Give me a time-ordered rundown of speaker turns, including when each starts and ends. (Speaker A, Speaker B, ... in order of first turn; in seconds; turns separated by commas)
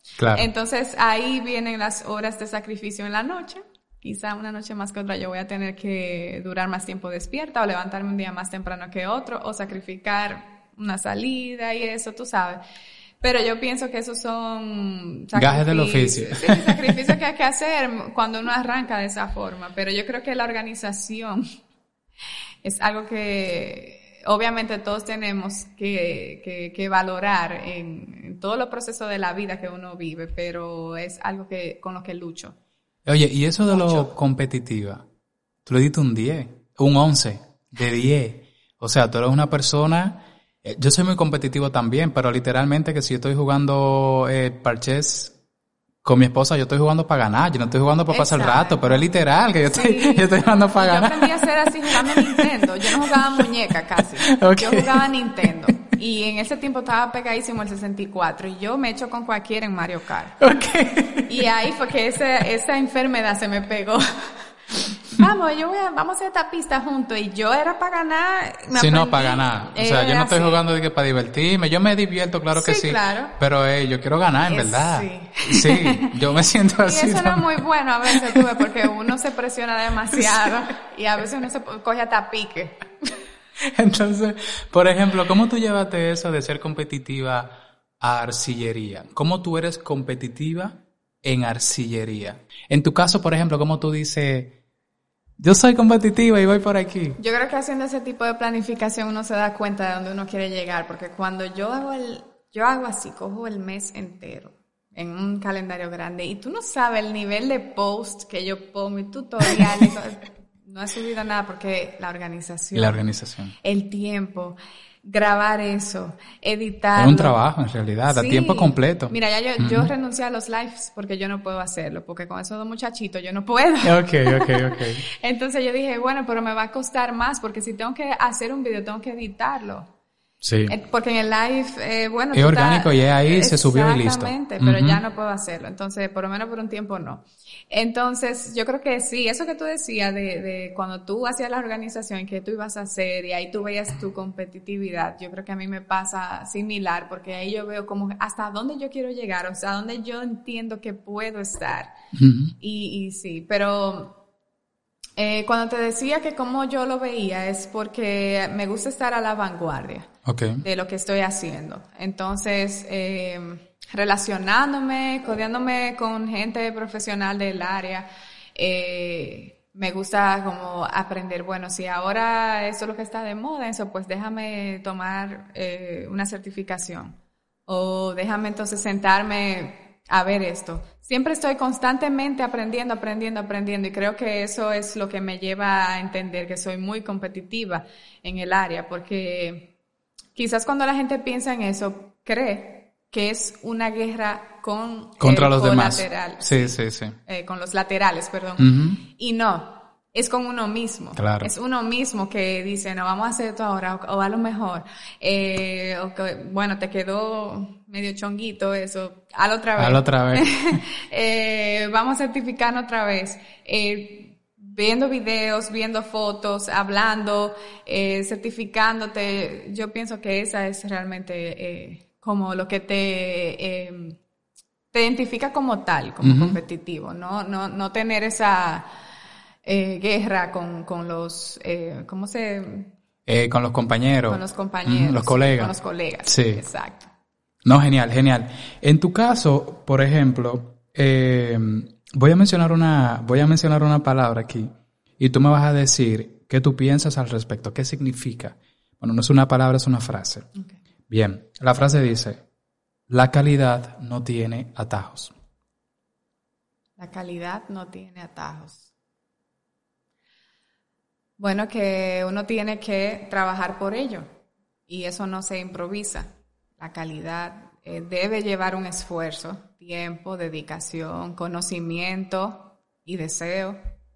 Speaker A: 0.2-0.5, Speaker B: 0.3-12.6, Speaker B: 13.2-21.4, Speaker A: 15.3-17.0, Speaker B: 22.6-32.5, Speaker A: 33.0-35.0, Speaker B: 33.7-34.1, Speaker A: 35.6-45.4, Speaker A: 46.0-55.7, Speaker B: 48.1-49.0, Speaker B: 49.6-60.4, Speaker A: 60.4-61.5, Speaker B: 61.2-64.5, Speaker B: 65.0-70.6, Speaker A: 68.7-78.4, Speaker B: 72.5-73.4, Speaker B: 74.5-76.2, Speaker B: 76.8-83.1, Speaker A: 80.2-80.5, Speaker A: 83.6-94.5, Speaker A: 95.4-97.2, Speaker B: 97.2-113.0, Speaker A: 112.7-113.5, Speaker B: 113.6-117.4, Speaker A: 116.9-119.9, Speaker B: 118.1-129.9, Speaker A: 123.8-125.0, Speaker A: 130.4-130.7, Speaker B: 130.7-151.9, Speaker A: 132.3-135.0, Speaker A: 152.1-152.5, Speaker B: 152.6-154.2, Speaker B: 155.2-160.1, Speaker A: 160.2-160.6, Speaker B: 160.6-189.7, Speaker B: 190.3-224.2, Speaker A: 195.2-197.2, Speaker A: 198.6-199.0, Speaker A: 201.2-201.5, Speaker A: 209.8-210.8, Speaker B: 224.9-228.9, Speaker A: 226.2-226.6, Speaker B: 229.6-232.9, Speaker A: 233.3-235.7, Speaker B: 234.3-237.1, Speaker A: 236.3-236.6, Speaker A: 237.6-250.5, Speaker A: 251.1-252.4, Speaker A: 253.1-255.3, Speaker B: 257.0-258.9, Speaker B: 261.4-264.3, Speaker B: 264.9-273.8